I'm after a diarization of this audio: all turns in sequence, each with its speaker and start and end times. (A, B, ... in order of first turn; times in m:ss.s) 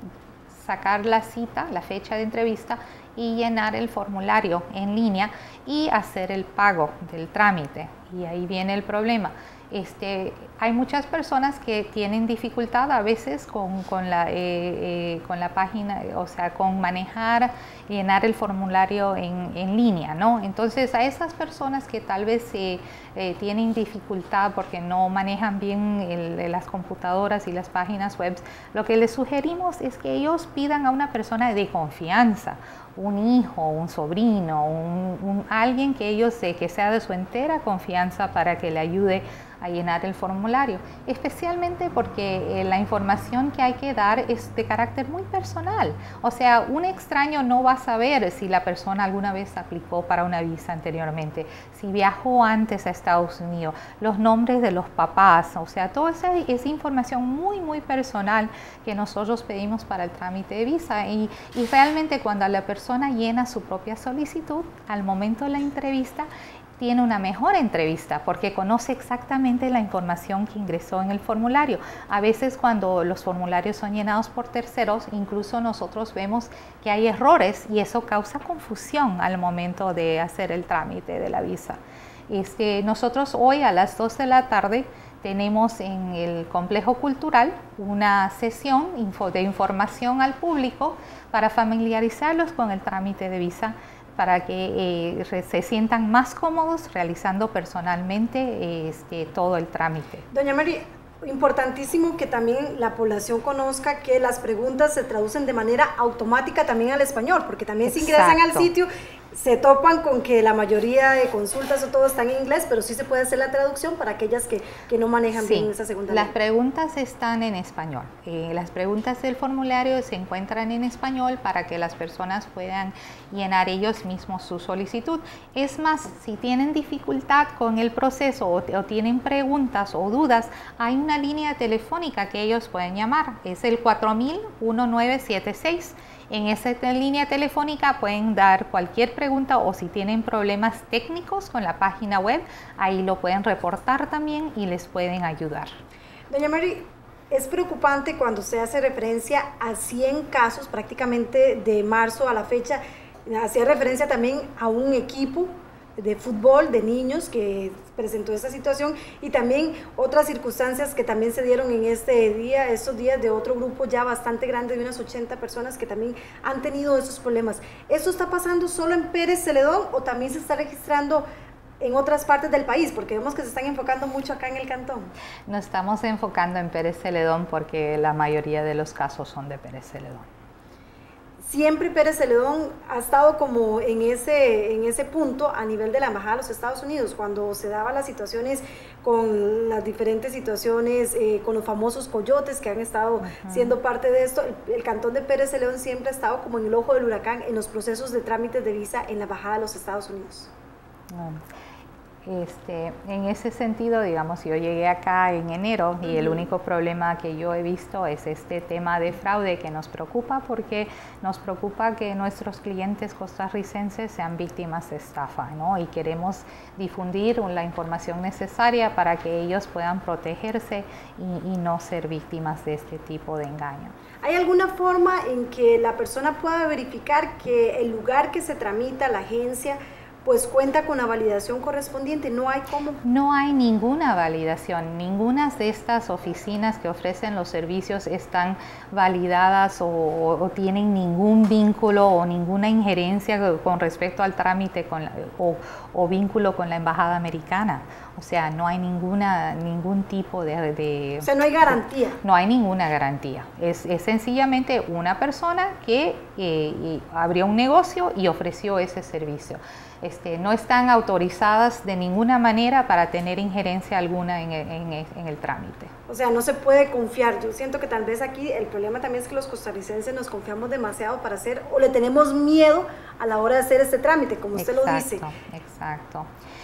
0:00.5-1:06.3 A
1:06.8-1:40.2 A
1:40.3-1:56.3 B
1:47.9-1:48.7 A
1:55.3-2:25.7 A
2:26.3-2:51.2 B
2:51.8-2:55.1 B
2:55.5-3:00.3 A
3:01.4-3:20.5 B
3:13.2-3:13.8 A
3:21.1-3:21.4 A
3:22.2-3:43.9 A
3:26.0-3:26.5 B
3:44.2-3:53.0 B
3:53.0-4:25.9 A
4:11.2-4:12.2 B
4:26.1-4:35.2 B
4:34.5-4:36.3 A